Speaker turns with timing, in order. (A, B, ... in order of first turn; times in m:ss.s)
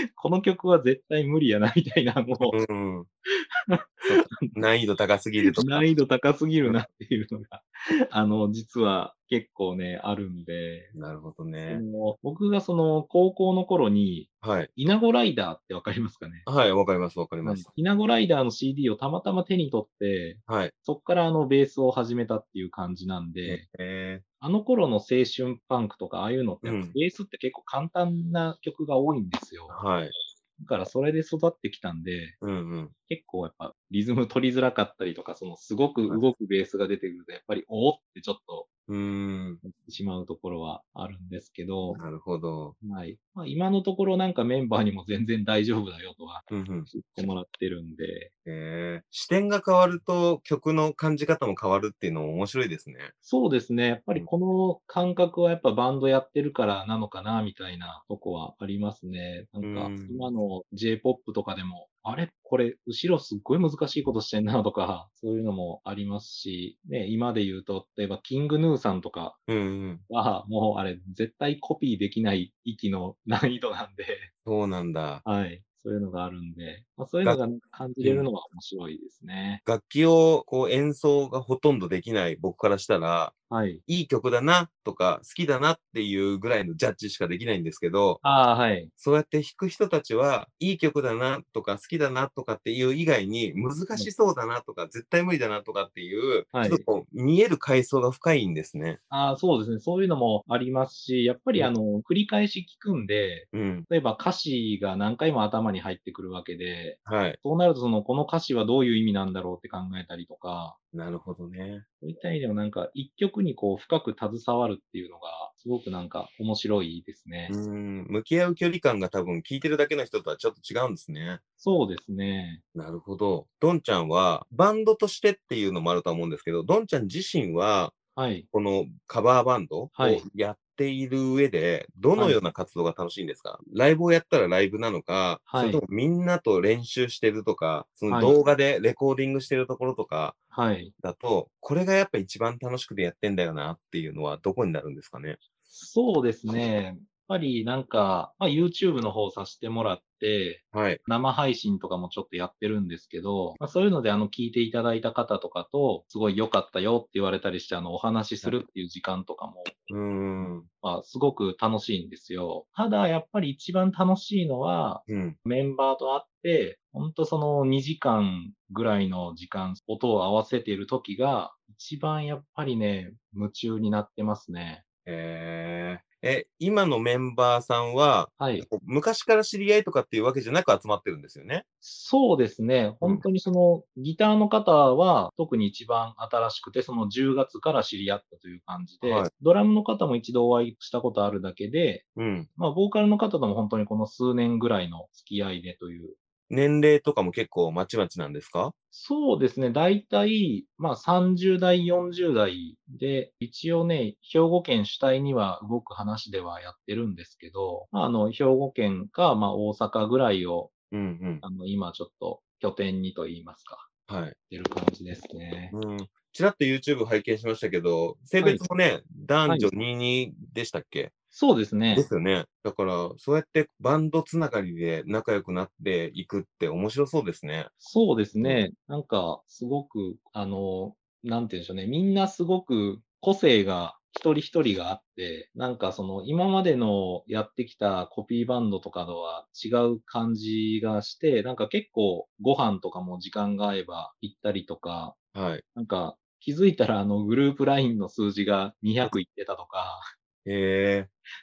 0:00.1-0:02.6 A
0:02.5-0:03.1 B
0:03.7-0:04.5 A
0:04.0-0:05.9 B
0:05.4-0:10.9 A
0:10.9-0:11.8 B
0:11.7-0:16.4 A
0:14.4-0:14.7 B
0:16.4-0:17.7 B
0:17.4-0:23.6 A
0:20.5-0:20.7 B
0:23.4-0:24.2 B
0:24.4-0:29.8 A
0:26.6-0:26.9 B
0:29.7-0:30.1 B
0:30.6-0:32.4 A
0:32.4-0:32.9 B
0:33.1-0:38.7 A
0:38.9-0:39.6 B
0:39.6-0:42.0 A
0:41.9-0:42.8 B
0:42.8-0:48.3 A
0:46.5-0:46.9 B
0:48.4-0:53.1 B
0:53.2-1:09.4 A
0:59.6-1:00.3 B
1:09.5-1:10.0 B
1:10.1-1:14.3 A
1:14.4-1:15.2 B
1:15.2-1:19.6 A
1:18.0-1:18.3 B
1:19.6-1:23.3 B
1:23.5-1:23.8 A
1:23.9-1:28.2 B
1:28.2-1:28.9 A
1:29.0-1:39.0 B
1:36.5-1:36.8 A
1:39.1-1:50.8 A
1:43.5-1:43.9 B
1:47.0-1:47.4 B
1:50.9-1:51.8 B
1:52.0-1:57.5 A
1:57.5-2:01.4 B
2:01.6-2:02.6 A
2:02.7-2:07.9 B
2:08.2-2:08.5 A
2:08.5-2:20.4 B
2:10.0-2:10.2 A
2:15.5-2:15.8 A
2:18.1-2:18.4 A
2:20.5-2:20.9 A
2:21.0-2:25.4 B
2:25.7-2:39.9 A
2:30.7-2:31.0 B
2:39.9-2:40.7 B
2:40.8-2:54.8 A
2:45.1-2:45.4 B
2:55.0-3:01.6 B
2:58.4-2:58.6 A
3:01.8-3:12.0 A
3:09.0-3:09.3 B
3:12.2-3:12.5 B
3:12.6-3:16.2 A
3:16.5-3:18.7 B
3:18.9-3:30.7 A
3:30.9-3:31.4 B
3:31.4-3:33.9 A
3:34.1-3:34.3 B
3:34.5-3:35.7 A
3:35.7-3:41.1 B
3:39.4-3:39.7 A
3:41.3-3:42.1 A
3:41.9-3:47.7 B
3:47.8-4:05.2 A
4:05.3-4:05.6 B
4:05.7-4:10.0 A
4:10.4-4:11.1 B